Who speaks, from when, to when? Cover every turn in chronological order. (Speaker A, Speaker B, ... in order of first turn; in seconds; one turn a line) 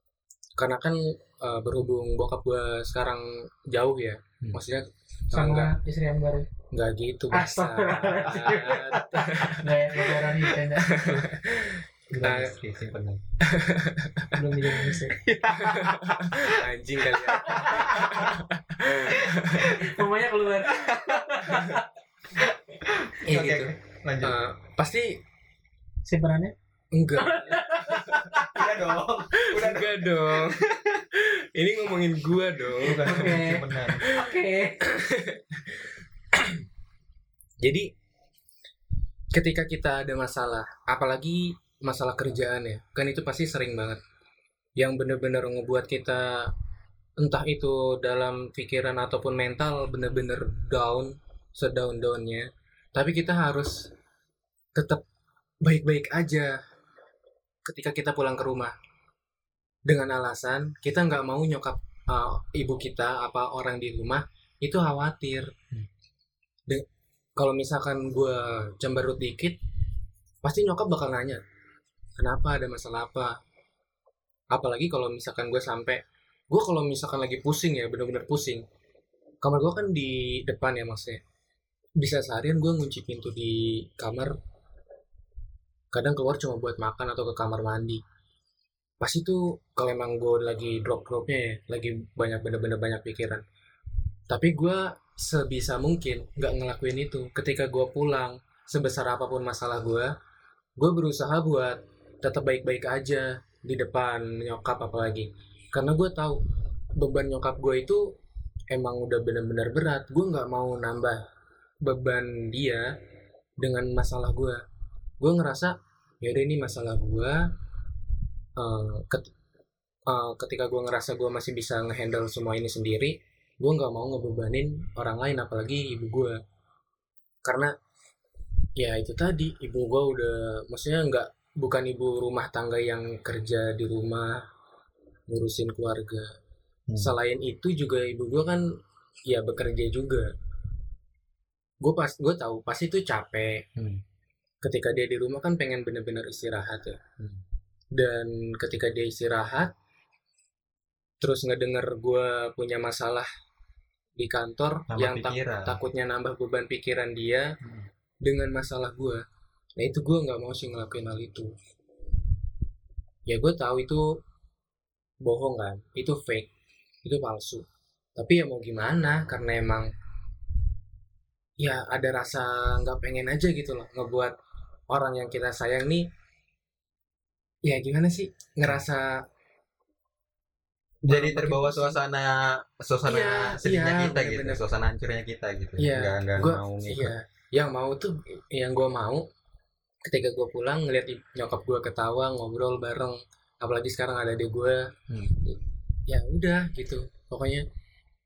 Speaker A: 0.6-5.8
Speaker B: 5.3-6.5
Speaker A: 6.7-9.7
Speaker B: 7.3-11.2
Speaker C: 8.5-9.2
Speaker A: 10.8-12.5
Speaker B: 12.1-12.4
Speaker C: 12.2-13.2
Speaker A: 13.4-14.3
Speaker B: 14.3-15.2
Speaker C: 15.1-16.6
Speaker A: 15.5-19.8
Speaker C: 17.2-18.4
Speaker B: 17.5-18.0
Speaker C: 19.1-19.8
Speaker B: 19.7-21.8
Speaker C: 20.7-21.3
Speaker C: 22.8-24.4
Speaker A: 23.2-25.2
Speaker B: 26.0-26.5
Speaker A: 26.9-28.4
Speaker B: 27.2-28.6
Speaker C: 28.3-31.0
Speaker A: 29.4-33.4
Speaker C: 32.8-34.1
Speaker B: 33.0-34.8
Speaker A: 33.9-35.8
Speaker A: 37.6-37.9
Speaker A: 39.3-44.0
Speaker A: 44.8-46.5
Speaker A: 47.2-53.9
Speaker A: 54.7-55.0
Speaker A: 55.6-56.6
Speaker A: 57.6-58.7
Speaker A: 59.9-65.5
Speaker A: 67.4-69.6
Speaker A: 70.4-71.4
Speaker A: 72.2-73.3
Speaker A: 74.5-78.6
Speaker A: 79.4-81.2
Speaker A: 82.0-84.3
Speaker A: 85.9-88.0
Speaker A: 89.0-93.4
Speaker A: 94.3-100.1
Speaker A: 100.8-106.4
Speaker A: 107.0-108.0
Speaker A: 108.7-111.2
Speaker A: 111.8-112.9
Speaker A: 113.6-114.6
Speaker A: 115.2-117.4
Speaker A: 118.6-119.3
Speaker A: 120.1-126.4
Speaker A: 127.4-127.7
Speaker A: 128.8-134.4
Speaker A: 135.3-136.3
Speaker A: 137.0-138.7
Speaker A: 139.2-140.3
Speaker A: 141.8-143.6
Speaker C: 143.8-144.0
Speaker A: 144.6-147.0
Speaker A: 147.9-149.7
Speaker A: 151.2-153.3
Speaker A: 154.2-157.5
Speaker C: 154.9-155.8
Speaker A: 158.2-159.2
Speaker A: 159.8-161.5
Speaker A: 163.3-164.1
Speaker A: 165.2-166.5
Speaker A: 167.0-167.6
Speaker A: 168.2-169.9
Speaker A: 171.6-174.3
Speaker A: 174.9-176.1
Speaker A: 177.6-179.2
Speaker C: 181.0-187.1
Speaker A: 181.1-182.0
Speaker A: 183.1-184.6
Speaker A: 185.8-189.3
Speaker A: 190.0-194.9
Speaker C: 195.1-195.4
Speaker A: 195.4-197.7